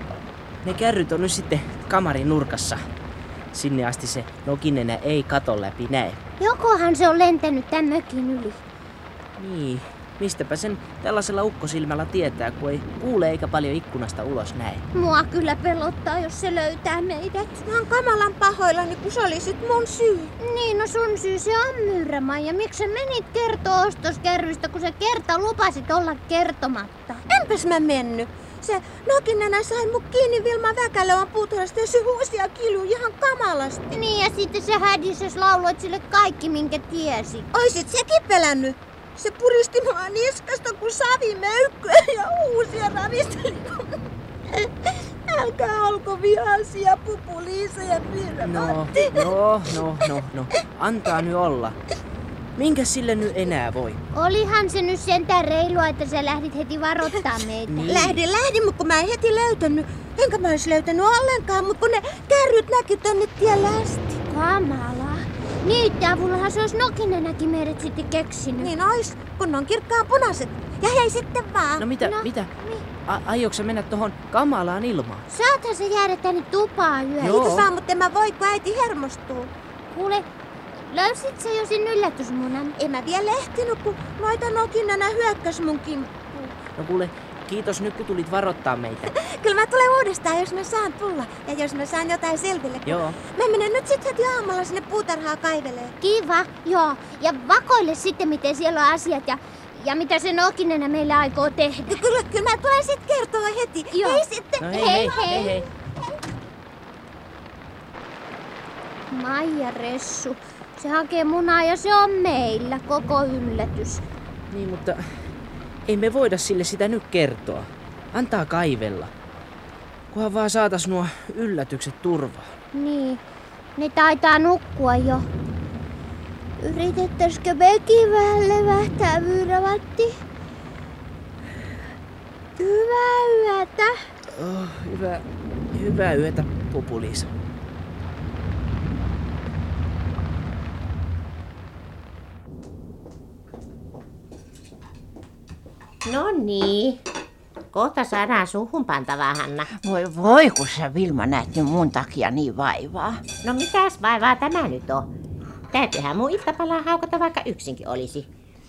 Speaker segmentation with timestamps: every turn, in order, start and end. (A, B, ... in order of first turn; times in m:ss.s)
0:00.6-0:02.8 A
0:03.5-0:06.2 A
0:06.4-0:08.6 B
0:09.4-0:14.8 A
0:14.9-0:17.5 B
0:17.5-0:20.3 C
0:20.4-0:27.2 B
0:27.3-0:33.9 C
0:33.9-0:37.5 B
0:37.5-0:44.0 C
0:45.3-0:49.3 C
0:48.4-0:51.8 A
0:52.6-0:54.0 A
0:54.1-0:58.0 B
0:57.7-0:58.2 A
0:57.9-1:04.2 C
1:04.3-1:08.7 B
1:08.6-1:11.9 C
1:11.8-1:12.5 A
1:12.0-1:12.8 B
1:13.1-1:15.2 A
1:15.3-1:17.4 B
1:17.2-1:19.5 C
1:17.2-1:17.6 A
1:19.9-1:20.2 B
1:20.9-1:22.8 B
1:22.8-1:26.6 C
1:26.8-1:29.1 A
1:29.1-1:35.9 C
1:32.9-1:33.2 A
1:36.0-1:42.0 B
1:41.9-1:45.6 C
1:43.9-1:45.6 B
1:44.6-1:45.6 A
1:49.1-1:54.0 B
1:54.5-1:55.1 A
1:55.9-1:59.1 A
2:00.1-2:02.5 A
2:02.7-2:03.2 B
2:03.8-2:05.3 B
2:06.6-2:10.2 B
2:12.6-2:14.0 B
2:14.3-2:17.3 A
2:26.0-2:27.0 D
2:27.7-2:29.7 D
2:29.7-2:33.2 E
2:33.4-2:35.1 D
2:35.7-2:38.3 D